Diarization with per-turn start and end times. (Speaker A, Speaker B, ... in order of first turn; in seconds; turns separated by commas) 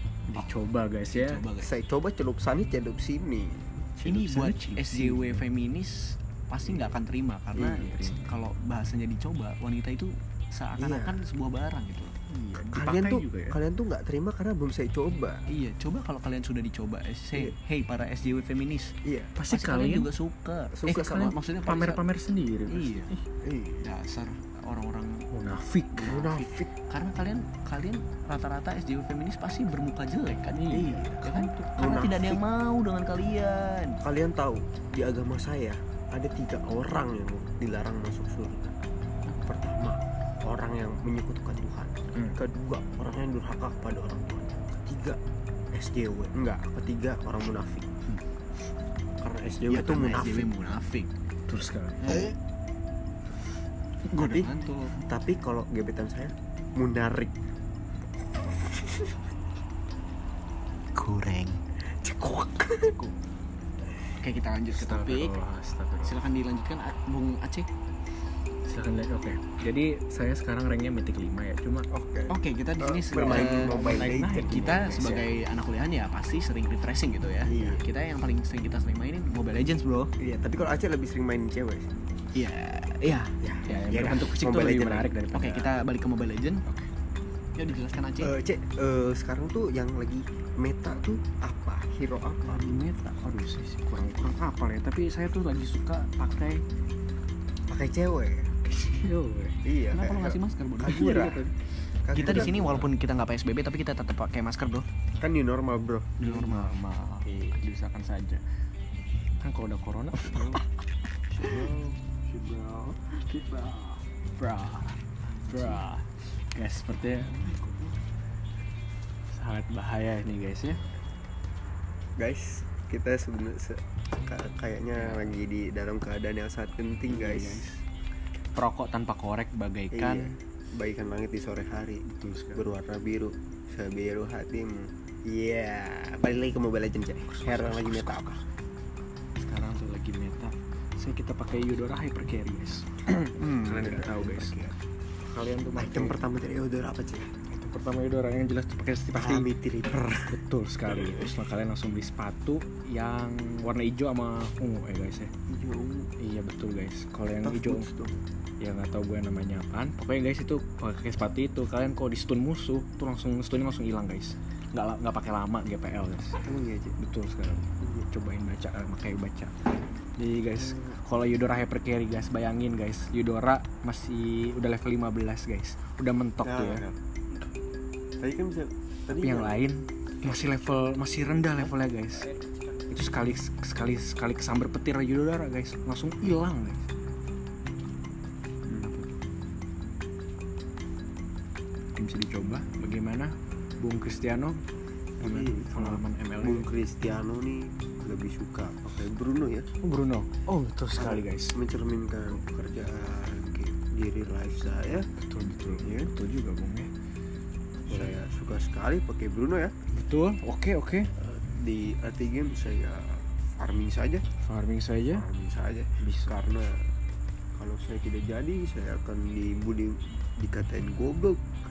Speaker A: 0.3-1.4, Speaker B: 1.1-1.8, Speaker C: 1.6-3.9, Speaker A: 4.0-5.4, Speaker B: 4.0-12.2, Speaker C: 7.5-7.9, Speaker A: 7.6-8.3, Speaker C: 10.8-11.2, Speaker A: 12.3-13.6, Speaker C: 12.6-15.4, Speaker B: 15.5-18.9, Speaker C: 19.0-19.3, Speaker A: 19.4-20.1, Speaker B: 19.5-22.0, Speaker C: 20.7-21.4, Speaker A: 21.6-23.2, Speaker B: 22.7-23.1, Speaker C: 23.4-23.9, Speaker B: 23.8-25.3, Speaker A: 25.3-26.2, Speaker B: 25.9-34.0, Speaker C: 26.0-26.7, Speaker A: 30.5-32.0, Speaker C: 30.7-32.4, Speaker C: 34.0-38.8, Speaker C: 39.4-45.2, Speaker C: 45.7-47.9, Speaker C: 49.2-50.5, Speaker B: 49.7-51.1, Speaker A: 51.5-52.3, Speaker C: 52.0-52.3, Speaker B: 52.0-52.3, Speaker B: 54.1-55.0, Speaker C: 54.1-57.3, Speaker C: 58.5-59.2, Speaker B: 61.0-61.6, Speaker C: 61.9-63.0, Speaker B: 64.2-65.3, Speaker A: 64.7-66.2, Speaker B: 66.0-67.7, Speaker A: 68.7-71.9, Speaker C: 71.9-74.8, Speaker B: 72.3-80.1, Speaker A: 73.3-75.3, Speaker C: 77.4-77.8, Speaker C: 80.2-81.9, Speaker B: 82.3-83.3, Speaker C: 83.4-85.1, Speaker A: 83.6-85.8, Speaker B: 85.3-86.7, Speaker B: 87.6-88.3, Speaker C: 88.2-92.7, Speaker A: 92.4-96.6, Speaker C: 97.7-98.5, Speaker A: 98.7-99.6, Speaker C: 99.6-101.4, Speaker B: 99.9-101.3, Speaker A: 100.8-101.5, Speaker C: 102.0-102.9, Speaker A: 102.1-102.9, Speaker B: 102.1-104.9, Speaker C: 105.2-106.2, Speaker A: 106.2-108.4, Speaker B: 106.2-106.9, Speaker C: 107.3-107.6, Speaker B: 107.9-108.4, Speaker A: 109.4-110.6, Speaker A: 111.3-112.0, Speaker C: 111.4-111.7, Speaker C: 112.3-113.9, Speaker A: 113.8-117.7, Speaker A: 119.3-120.8, Speaker C: 122.2-127.6, Speaker A: 125.0-125.3, Speaker A: 127.1-127.8, Speaker A: 128.6-130.4, Speaker C: 129.9-138.4, Speaker A: 132.1-132.7, Speaker A: 137.3-138.4, Speaker A: 139.4-144.6, Speaker C: 143.4-144.8, Speaker A: 145.2-146.2, Speaker C: 145.8-147.3, Speaker A: 147.5-149.5, Speaker C: 149.2-150.4, Speaker A: 150.3-155.3, Speaker C: 150.9-151.3, Speaker C: 155.5-156.1, Speaker A: 156.2-157.9, Speaker C: 157.4-158.2, Speaker A: 158.6-166.4, Speaker C: 166.4-167.0, Speaker A: 167.0-169.5, Speaker A: 170.2-176.9, Speaker C: 176.4-177.0, Speaker C: 178.2-179.6, Speaker A: 179.1-182.3, Speaker A: 182.9-186.9, Speaker A: 188.7-189.1, Speaker A: 192.0-194.6, Speaker A: 195.2-196.7, Speaker C: 195.2-199.7, Speaker A: 199.8-201.6, Speaker C: 201.0-205.1, Speaker A: 205.0-206.9, Speaker C: 205.8-206.1, Speaker C: 207.9-209.7, Speaker A: 207.9-208.2, Speaker A: 209.9-211.1, Speaker C: 211.2-214.2, Speaker A: 214.4-215.3, Speaker C: 215.1-216.9, Speaker A: 216.0-216.4, Speaker C: 217.6-221.4